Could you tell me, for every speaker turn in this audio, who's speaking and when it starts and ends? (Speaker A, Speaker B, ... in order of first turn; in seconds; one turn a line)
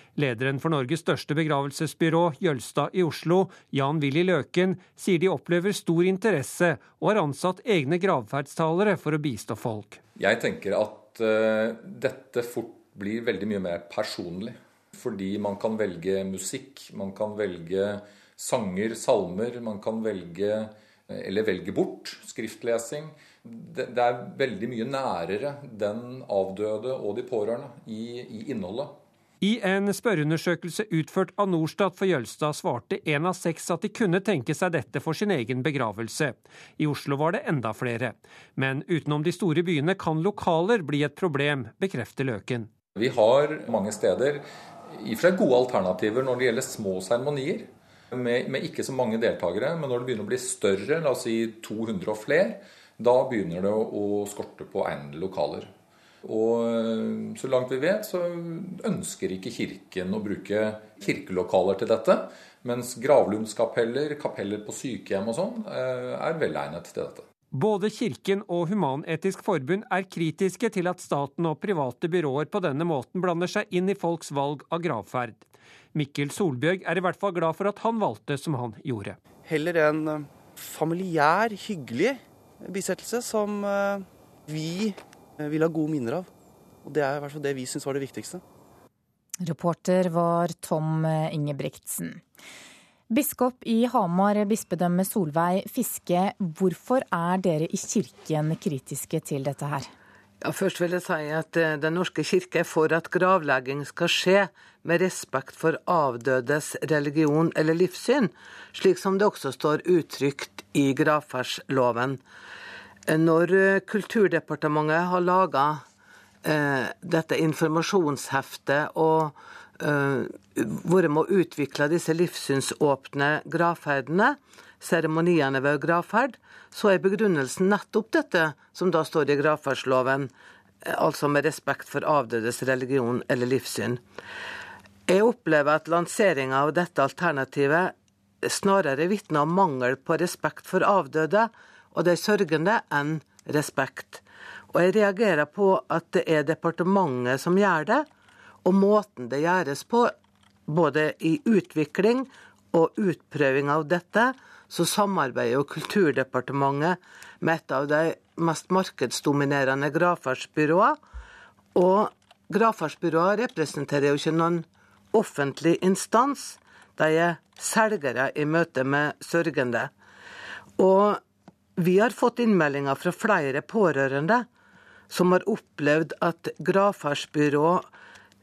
Speaker A: 0.2-10.0
Speaker B: 10.2-28.9
Speaker A: 29.4-42.7
Speaker B: 43.0-55.7
Speaker B: 56.2-67.3
Speaker A: 67.5-79.2
Speaker C: 79.5-84.0
Speaker C: 84.5-85.0
Speaker C: 85.5-86.3
Speaker C: 86.8-88.4
Speaker D: 89.4-92.2
Speaker D: 93.1-99.9
Speaker E: 100.4-112.2
Speaker E: 113.1-115.8
Speaker E: 116.4-130.3
Speaker E: 130.8-134.0
Speaker E: 135.1-137.9
Speaker E: 138.4-148.1
Speaker E: 148.6-150.1
Speaker E: 150.7-161.0
Speaker E: 161.7-169.9
Speaker E: 170.8-171.2
Speaker E: 171.8-174.5
Speaker E: 175.1-177.9